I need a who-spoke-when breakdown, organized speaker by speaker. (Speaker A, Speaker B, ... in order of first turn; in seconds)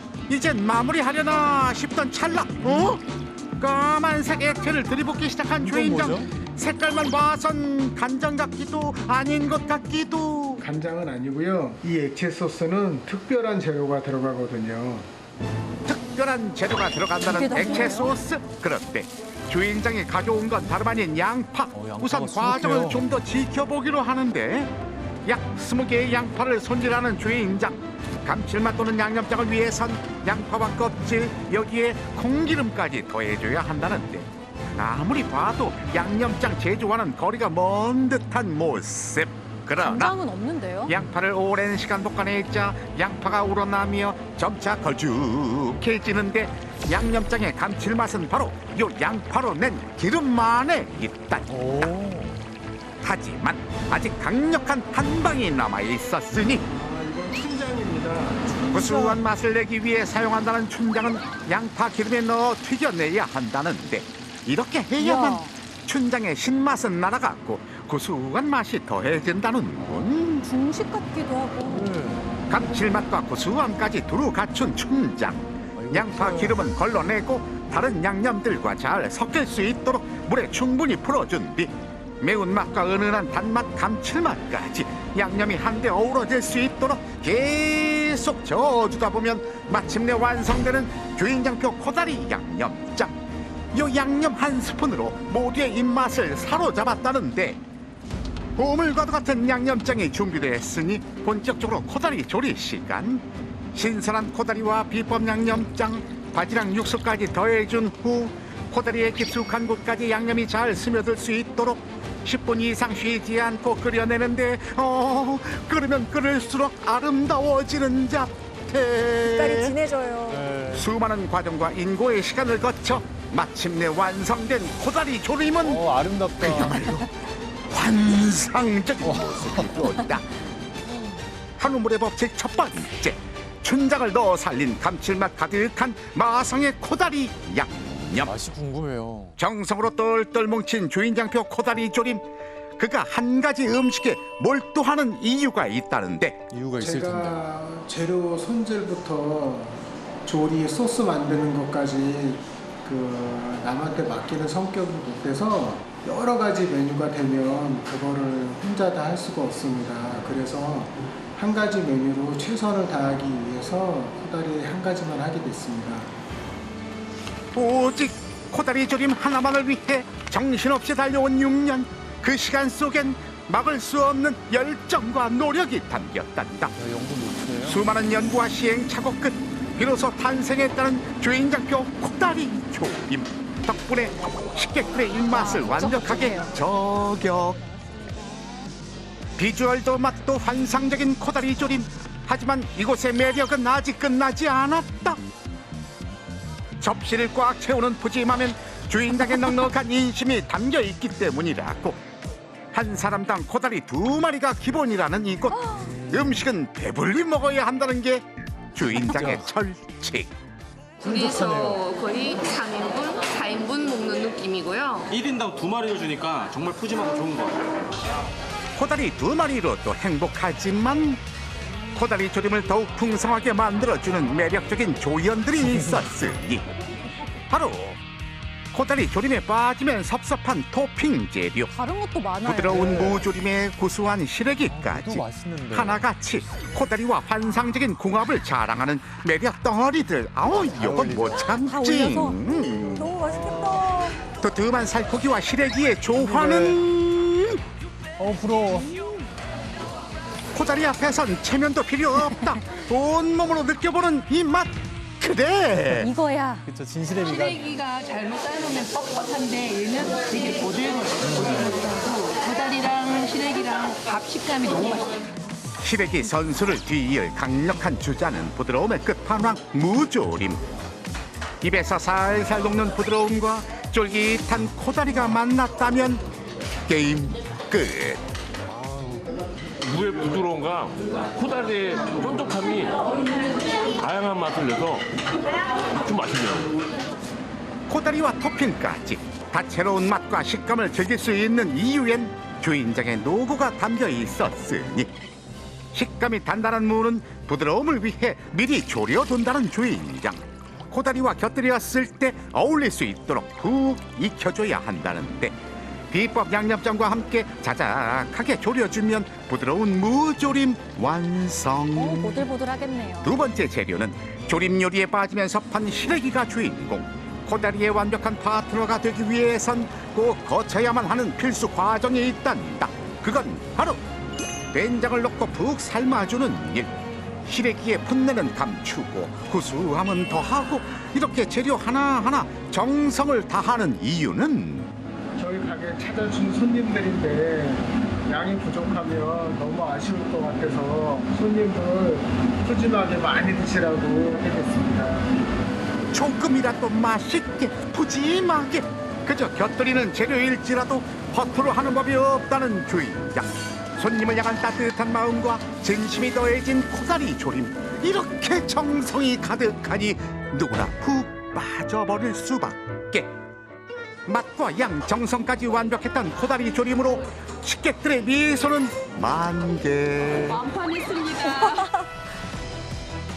Speaker A: 0.3-3.0, 3.6-10.6, 15.9-24.7, 25.2-40.2, 40.9-51.6, 53.0-56.6, 58.7-70.4, 72.5-93.2, 93.7-97.6, 98.6-119.8, 120.7-125.9, 126.4-127.1, 127.7-130.3, 131.6-138.3, 139.4-142.2, 142.8-146.4, 167.6-176.7, 177.6-187.6, 189.4-195.2, 196.8-202.0, 202.7-210.3, 218.8-221.2, 221.9-226.7, 227.5-228.0, 228.7-231.7, 232.4-243.1, 244.4-247.6, 250.6-256.1, 265.8-270.6, 271.6-276.2, 276.9-278.2, 287.9-295.1, 295.9-305.6, 306.1-312.5, 313.2-324.0, 324.7-326.9, 327.4-334.9, 346.1-363.3, 364.3-370.7
Speaker B: 5.6-6.3, 21.7-23.0, 51.5-52.4, 71.7-72.3, 75.8-76.6, 120.3-120.9, 125.6-126.9, 129.0-129.9, 138.2-139.4, 146.5-147.4, 176.8-177.8, 208.9-209.5, 211.0-211.8, 225.7-226.0, 232.7-233.2, 234.7-236.0, 240.5-241.5, 243.3-243.8, 246.2-246.8, 248.2-249.0, 256.6-257.7, 261.2-261.8, 278.7-279.2
Speaker C: 10.6-15.1, 56.6-59.1, 146.8-166.1, 335.4-345.4
Speaker D: 17.3-18.1, 257.2-265.1
Speaker E: 40.2-40.7, 70.5-71.7, 119.3-120.3, 185.7-186.3, 231.7-232.7, 241.5-244.1, 256.2-256.6, 312.0-313.3
Speaker F: 211.0-215.1, 370.5-371.9
Speaker G: 215.1-217.7
Speaker H: 279.8-283.1, 283.9-285.1, 285.9-286.7